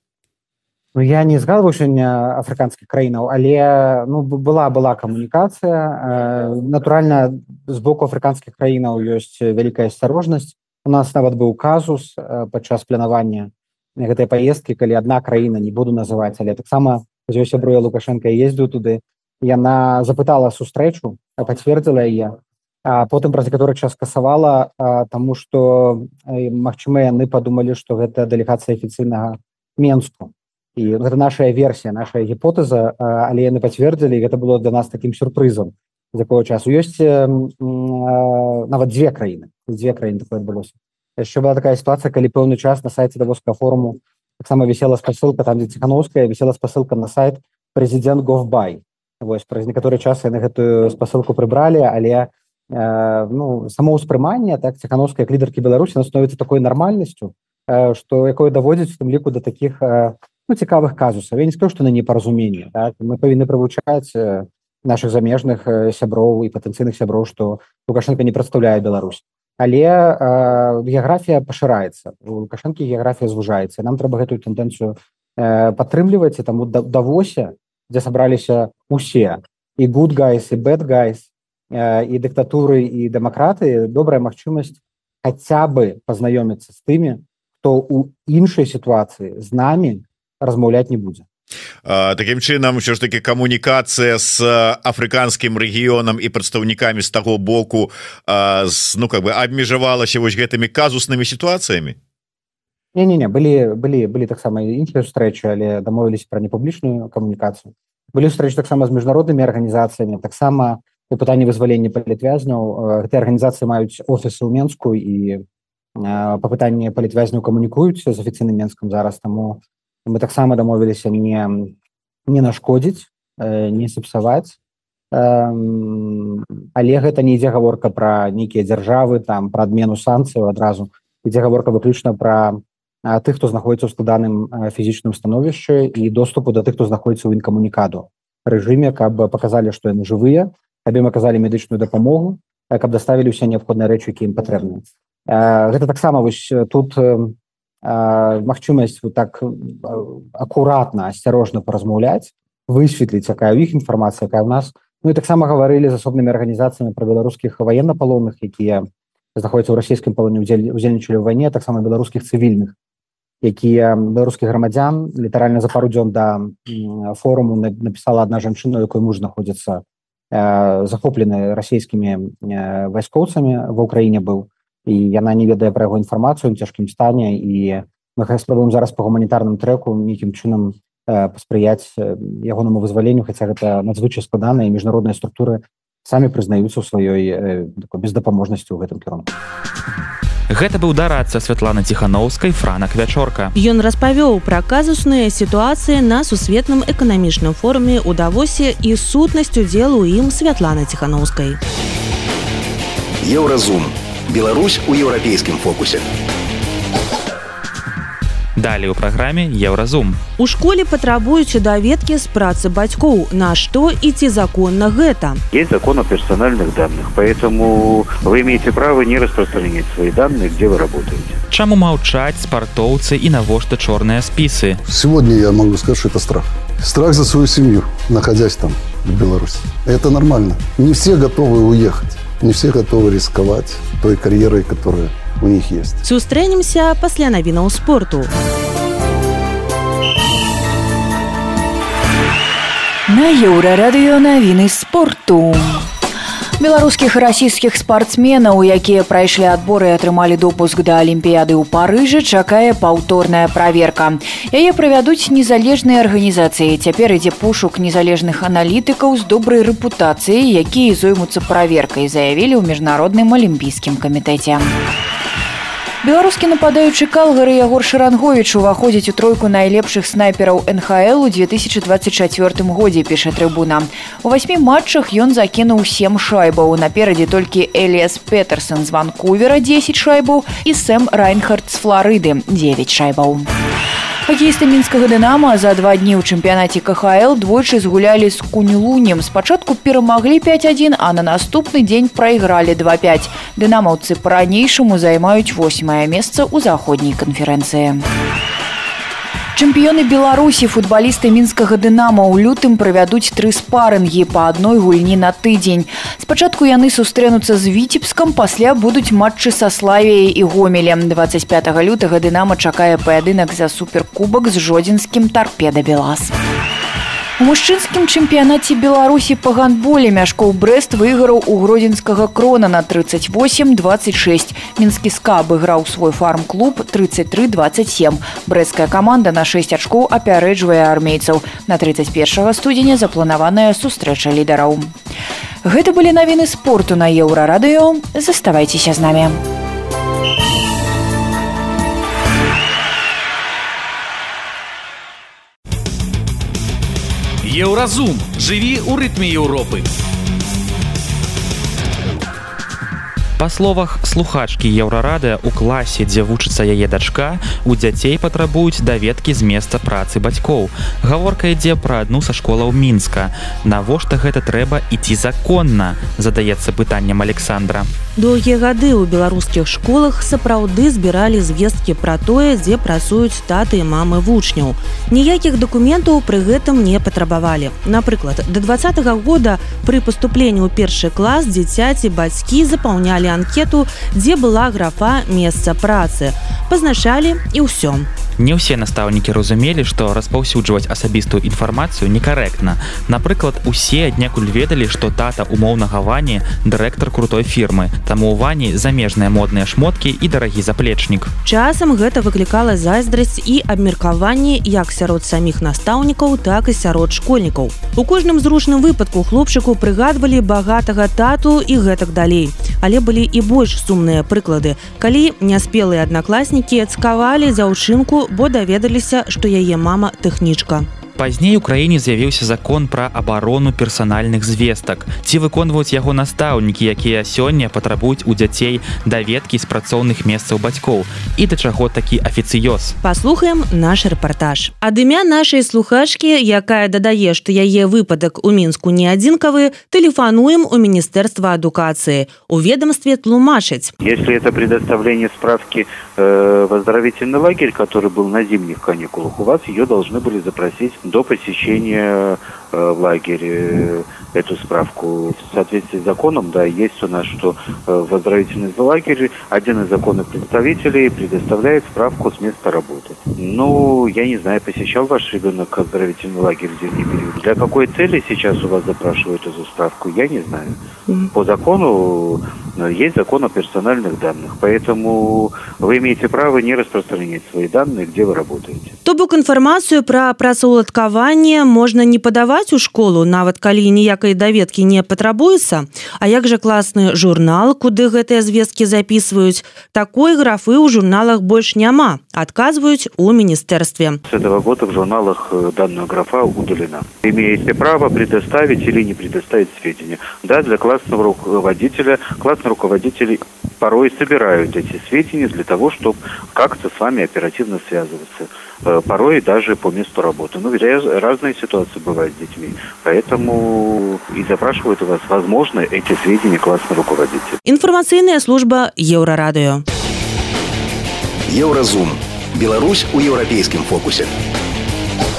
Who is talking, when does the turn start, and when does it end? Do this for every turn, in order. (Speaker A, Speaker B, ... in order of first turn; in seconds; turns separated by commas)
Speaker A: 0.9-91.2, Speaker B: 91.8-102.0, Speaker A: 102.9-115.4, Speaker A: 116.0-121.7, Speaker A: 122.3-124.6, Speaker A: 125.1-162.7, Speaker A: 163.4-189.3, Speaker C: 190.5-193.5, Speaker D: 193.6-201.6, Speaker E: 203.2-206.1, Speaker C: 208.6-210.2, Speaker D: 210.4-215.4, Speaker F: 215.5-221.4, Speaker C: 221.5-224.8, Speaker G: 224.8-236.0, Speaker D: 236.0-238.3, Speaker H: 243.1-245.9, Speaker H: 246.6-264.7, Speaker H: 266.0-283.5, Speaker H: 284.2-298.0, Speaker H: 299.5-316.3, Speaker H: 317.4-334.9, Speaker H: 335.6-339.4, Speaker I: 347.4-349.9, Speaker C: 353.4-367.9, Speaker D: 368.2-388.1, Speaker C: 388.4-401.3, Speaker D: 401.4-420.9, Speaker C: 421.1-433.0, Speaker D: 433.0-443.9, Speaker F: 444.0-470.8, Speaker F: 471.3-478.9, Speaker D: 479.0-494.2, Speaker F: 494.2-517.6, Speaker D: 517.6-519.8, Speaker E: 521.5-524.3